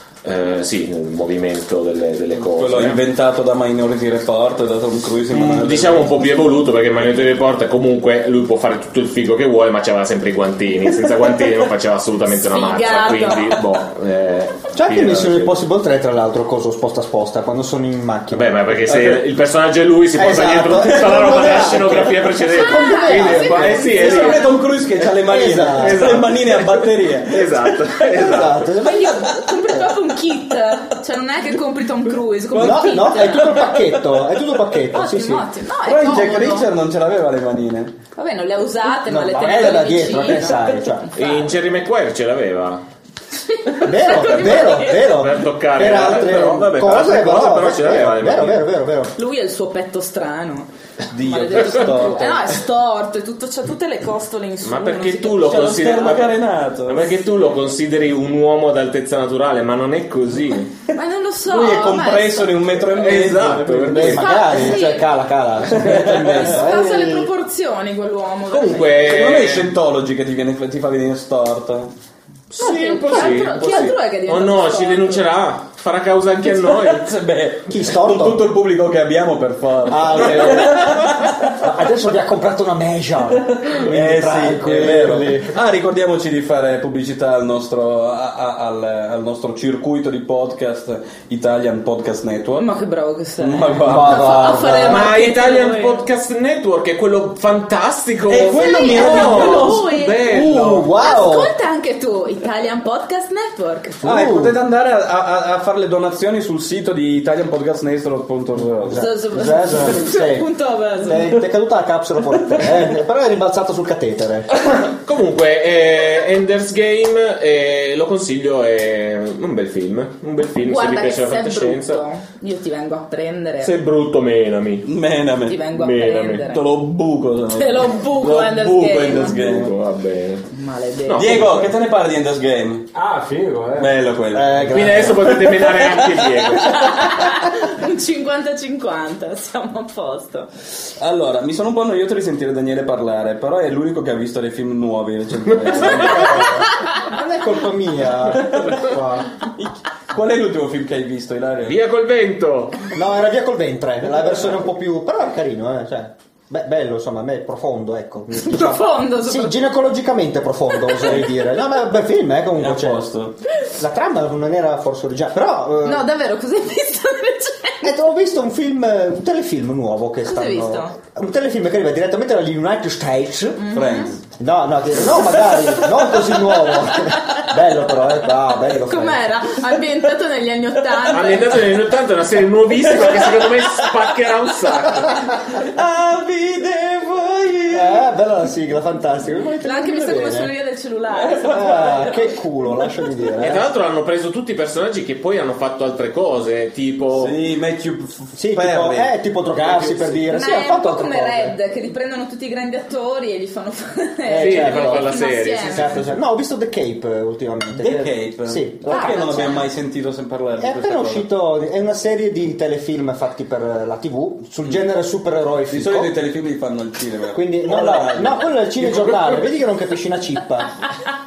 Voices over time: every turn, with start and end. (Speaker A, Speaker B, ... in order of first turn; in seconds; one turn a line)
Speaker A: 0.2-3.0
Speaker B: 2.3-6.1
Speaker A: 5.3-15.6
Speaker C: 12.3-13.6
Speaker D: 14.7-19.2
Speaker A: 18.3-24.5
Speaker D: 20.1-23.9
Speaker C: 22.4-24.6
Speaker B: 23.8-27.9
Speaker D: 25.0-26.1
Speaker A: 25.6-28.7
Speaker D: 28.1-29.2
Speaker C: 28.8-33.6
Speaker B: 32.5-34.2
Speaker D: 32.5-35.5
Speaker C: 34.9-36.7
Speaker B: 35.8-37.9
Speaker C: 38.1-41.4
Speaker D: 39.0-41.1
Speaker A: 41.1-42.8
Speaker C: 43.4-45.1
Speaker D: 43.8-49.1
Speaker A: 44.6-48.6
Speaker C: 49.1-55.9
Speaker B: 51.1-52.5
Speaker A: 54.6-60.8
Speaker B: 55.4-57.1
Speaker C: 60.9-62.8
Speaker B: 61.5-64.2
Speaker A: 62.8-64.3
Speaker D: 63.9-67.3
Speaker C: 64.0-65.1
Speaker B: 65.7-66.8
Speaker C: 66.4-69.0
Speaker A: 68.5-69.7
Speaker B: 69.0-71.9
Speaker A: 72.5-77.2
Speaker C: 72.6-75.2
Speaker B: 73.6-73.9
Speaker B: 76.4-81.5
Speaker D: 77.7-78.5
Speaker D: 79.8-85.6
Speaker A: 80.1-81.1
Speaker B: 83.6-92.7
Speaker C: 92.5-96.0
Speaker B: 93.4-94.6
Speaker D: 93.8-95.1
Speaker A: 94.8-100.9
Speaker B: 98.3-100.9
Speaker C: 98.5-104.0
Speaker D: 100.3-101.5
Speaker D: 104.0-104.6
Speaker B: 104.0-109.0
Speaker D: 108.8-110.5
Speaker C: 108.9-111.4
Speaker D: 111.0-114.6
Speaker A: 114.5-122.0
Speaker C: 120.6-123.7
Speaker A: 123.6-124.9
Speaker B: 124.8-125.7
Speaker C: 125.5-126.7
Speaker A: 125.7-126.5
Speaker B: 126.4-129.7
Speaker C: 127.5-129.4
Speaker A: 129.1-130.5
Speaker C: 130.5-131.4
Speaker A: 131.0-131.8
Speaker B: 131.2-132.9
Speaker A: 133.0-133.9
Speaker B: 133.7-136.3
Speaker D: 134.3-135.5
Speaker A: 134.7-137.2
Speaker C: 136.6-140.5
Speaker B: 141.0-146.6
Speaker D: 145.7-149.3
Speaker B: 148.3-151.8
Speaker A: 151.6-152.9
Speaker D: 152.9-163.1
Speaker C: 158.3-159.6
Speaker B: 162.6-163.3
Speaker D: 163.6-166.1
Speaker C: 165.8-167.9
Speaker D: 167.8-173.7
Speaker C: 170.2-170.9
Speaker C: 173.6-174.2
Speaker B: 173.7-174.2
Speaker D: 174.4-179.4
Speaker C: 178.8-181.7
Speaker A: 181.1-185.4
Speaker B: 182.8-183.8
Speaker B: 185.5-188.0
Speaker D: 187.7-190.5
Speaker C: 189.6-192.2
Speaker B: 191.1-191.9
Speaker D: 191.5-193.7
Speaker A: 193.4-197.3
Speaker B: 197.1-200.2
Speaker D: 198.3-201.6
Speaker C: 200.3-205.9
Speaker D: 204.2-209.6
Speaker A: 204.4-206.2
Speaker B: 207.8-211.3
Speaker C: 208.9-209.7
Speaker D: 210.6-216.1
Speaker B: 215.7-219.0
Speaker D: 217.3-220.8